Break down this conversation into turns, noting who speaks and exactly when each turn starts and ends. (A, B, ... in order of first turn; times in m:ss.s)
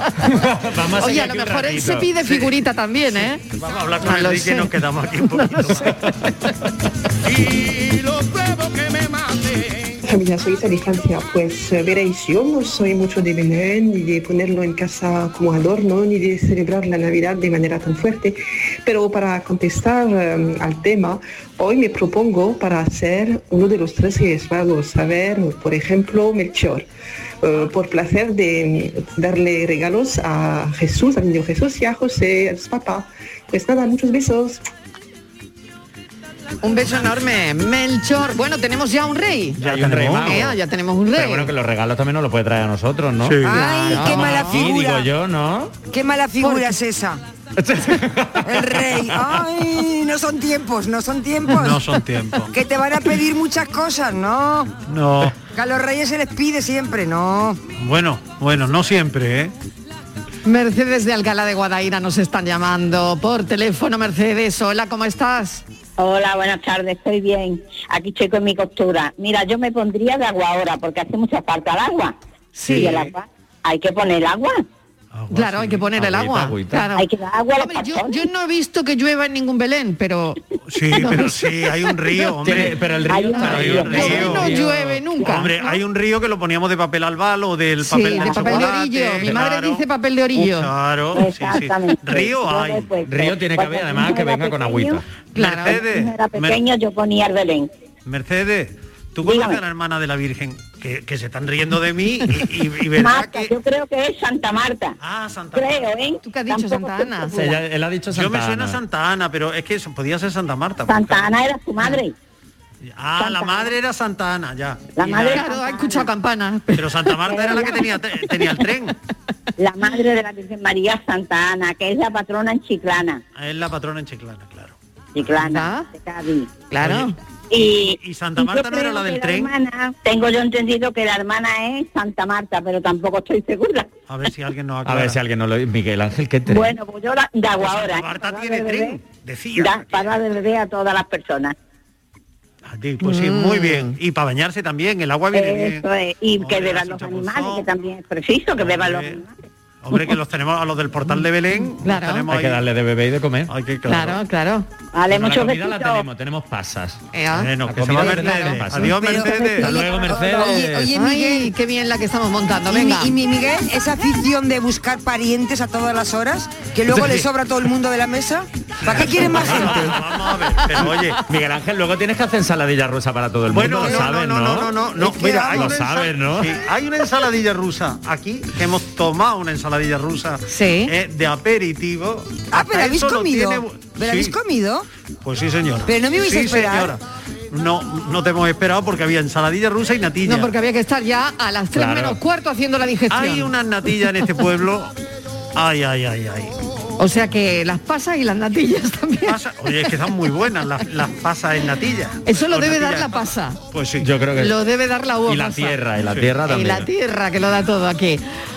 0:00.2-0:02.1 A
0:01.0-0:03.4 B
0:03.6-0:06.0 C
0:04.0-0:04.7 B
0:05.4-0:05.9 B
0:10.0-0:26.9 D
0:27.4-0:34.6 D
0:36.6-0:39.6 B
0:39.6-0:40.4 C
0:39.6-0:40.6 A
0:40.2-0:41.5 B
0:41.1-0:45.8 A
0:43.2-0:43.6 C
0:43.4-0:45.1 E
0:43.5-0:44.6 B
0:45.9-0:47.2 E
0:46.4-0:46.7 B
0:47.6-0:49.4 A
0:48.4-0:51.8 E
0:51.5-0:52.5 C
0:52.5-0:54.7 E
0:54.9-0:55.4 C
0:55.5-0:57.6 E
0:57.8-0:59.5 C
1:00.4-1:05.6 B
1:06.0-1:12.1 F
1:12.5-1:13.0 B
1:12.7-1:14.6 F
1:12.7-1:13.1 C
1:15.1-1:15.8 C
1:15.3-1:17.1 B
1:15.9-1:16.9 A
1:16.9-1:18.2 F
1:17.6-1:20.4 B
1:20.7-1:22.7 C
1:20.9-1:21.5 B
1:22.4-1:25.0 A
1:23.0-1:24.4 F
1:23.3-1:25.8 B
1:23.4-1:24.6 C
1:25.2-1:25.4 F
1:25.3-1:29.8 C
1:27.8-1:30.7 B
1:28.1-1:28.6 F
1:30.3-1:32.9 C
1:31.1-1:35.0 F
1:33.0-1:35.0 A
1:35.3-1:35.8 B
1:35.4-1:36.6 C
1:35.7-1:37.7 F
1:38.0-1:43.5 C
1:39.2-1:39.6 F
1:43.0-1:45.0 F
1:45.0-1:45.9 C
1:45.5-1:47.4 F
1:46.2-1:47.6 B
1:47.3-1:48.8 A
1:48.1-1:51.3 C
1:50.9-1:52.1 F
1:52.9-1:55.4 C
1:53.2-1:53.7 F
1:55.0-1:56.1 F
1:55.2-1:57.1 B
1:56.7-1:58.9 C
1:57.3-1:58.0 F
1:59.6-2:03.2 F
2:03.4-2:04.8 C
2:05.1-2:06.6 F
2:05.4-2:05.9 B
2:06.7-2:07.1 B
2:06.8-2:07.1 C
2:07.5-2:13.9 F
2:07.9-2:09.5 C
2:14.1-2:15.2 C
2:14.8-2:16.7 A
2:16.5-2:19.0 F
2:17.6-2:20.2 C
2:19.6-2:21.5 F
2:22.7-2:25.8 C
2:23.0-2:24.0 B
2:25.3-2:29.3 F
2:26.4-2:27.7 C
2:28.6-2:29.2 C
2:29.8-2:32.6 C
2:31.8-2:32.3 B
2:32.3-2:33.5 A
2:33.5-2:34.2 C
2:33.8-2:34.7 B
2:34.9-2:36.0 F
2:35.1-2:37.0 A
2:37.1-2:38.6 B
2:37.3-2:39.8 C
2:37.7-2:40.9 A
2:38.9-2:41.5 E
2:40.4-2:43.1 B
2:42.7-2:50.0 E
2:46.9-2:47.2 C
2:48.8-2:51.2 C
2:49.0-2:49.9 A
2:50.7-2:56.6 A
2:53.5-3:04.4 C
2:55.0-2:55.8 E
3:00.5-3:00.9 B
3:02.5-3:04.8 E
3:05.2-3:10.5 C
3:05.9-3:06.9 E
3:10.2-3:13.5 B
3:11.7-3:12.2 A
3:13.1-3:14.9 C
3:15.5-3:16.6 C
3:17.0-3:19.4 B
3:19.2-3:23.2 C
3:22.2-3:23.6 B
3:23.7-3:24.1 C
3:24.0-3:24.6 A
3:24.4-3:25.8 B
3:25.3-3:26.9 A
3:26.5-3:28.2 B